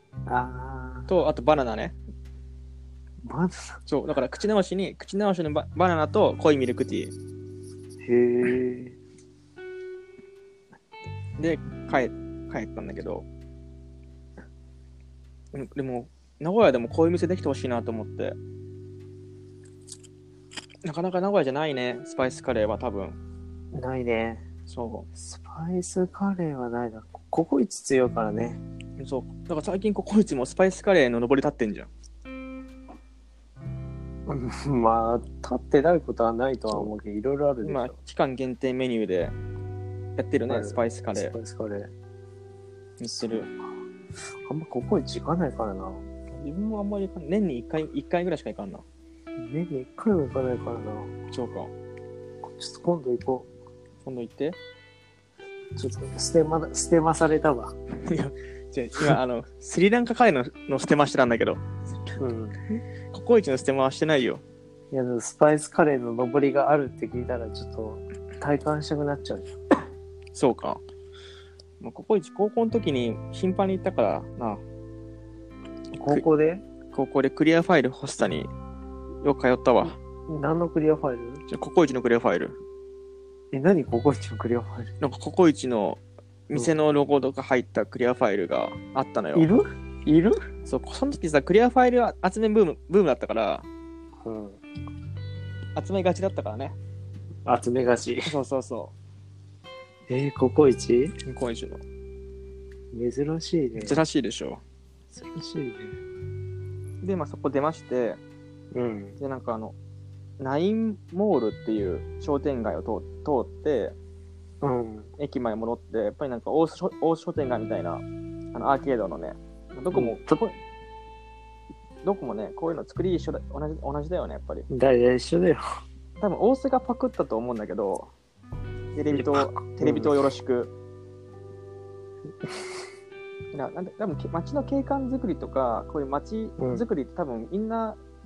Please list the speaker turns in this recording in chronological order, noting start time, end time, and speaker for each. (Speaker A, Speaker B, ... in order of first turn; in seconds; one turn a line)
Speaker A: 0.2-1.1
Speaker B: 1.1-1.9
Speaker A: 3.2-3.8
Speaker B: 3.9-7.1
Speaker A: 8.0-9.0
Speaker B: 11.4-13.2
Speaker B: 15.5-18.4
Speaker B: 20.8-23.2
Speaker A: 23.7-24.4
Speaker B: 24.7-25.1
Speaker A: 25.1-28.6
Speaker B: 29.0-31.9
Speaker A: 34.3-38.0
Speaker B: 37.6-39.3
Speaker B: 40.2-41.3
Speaker A: 40.5-41.9
Speaker B: 43.0-43.5
Speaker A: 44.3-46.0
Speaker B: 46.3-48.8
Speaker A: 49.4-51.1
Speaker B: 51.3-51.7
Speaker A: 52.4-53.5
Speaker B: 54.0-54.6
Speaker A: 55.8-57.7
Speaker B: 58.0-61.6
Speaker A: 62.2-62.6
Speaker B: 63.1-64.4
Speaker A: 64.9-69.5
Speaker B: 70.3-70.8
Speaker B: 71.8-74.6
Speaker A: 75.9-76.6
Speaker B: 76.9-78.5
Speaker B: 79.2-80.0
Speaker A: 80.3-81.4
Speaker B: 81.5-82.6
Speaker A: 83.5-84.9
Speaker B: 85.0-89.5
Speaker A: 89.3-90.4
Speaker B: 90.7-93.7
Speaker A: 94.2-94.6
Speaker B: 95.7-96.8
Speaker A: 97.4-98.3
Speaker B: 98.3-98.9
Speaker A: 100.1-101.1
Speaker B: 101.2-101.8
Speaker A: 102.9-104.0
Speaker B: 103.7-104.6
Speaker A: 105.1-106.0
Speaker B: 107.0-108.2
Speaker A: 108.7-109.2
Speaker B: 109.2-109.7
Speaker B: 110.4-114.0
Speaker A: 114.6-115.1
Speaker B: 115.2-120.5
Speaker A: 119.9-120.4
Speaker B: 122.0-124.7
Speaker A: 124.7-125.6
Speaker B: 126.2-128.1
Speaker B: 128.9-130.7
Speaker A: 129.1-130.1
Speaker A: 132.4-132.7
Speaker B: 133.5-138.0
Speaker A: 136.6-136.8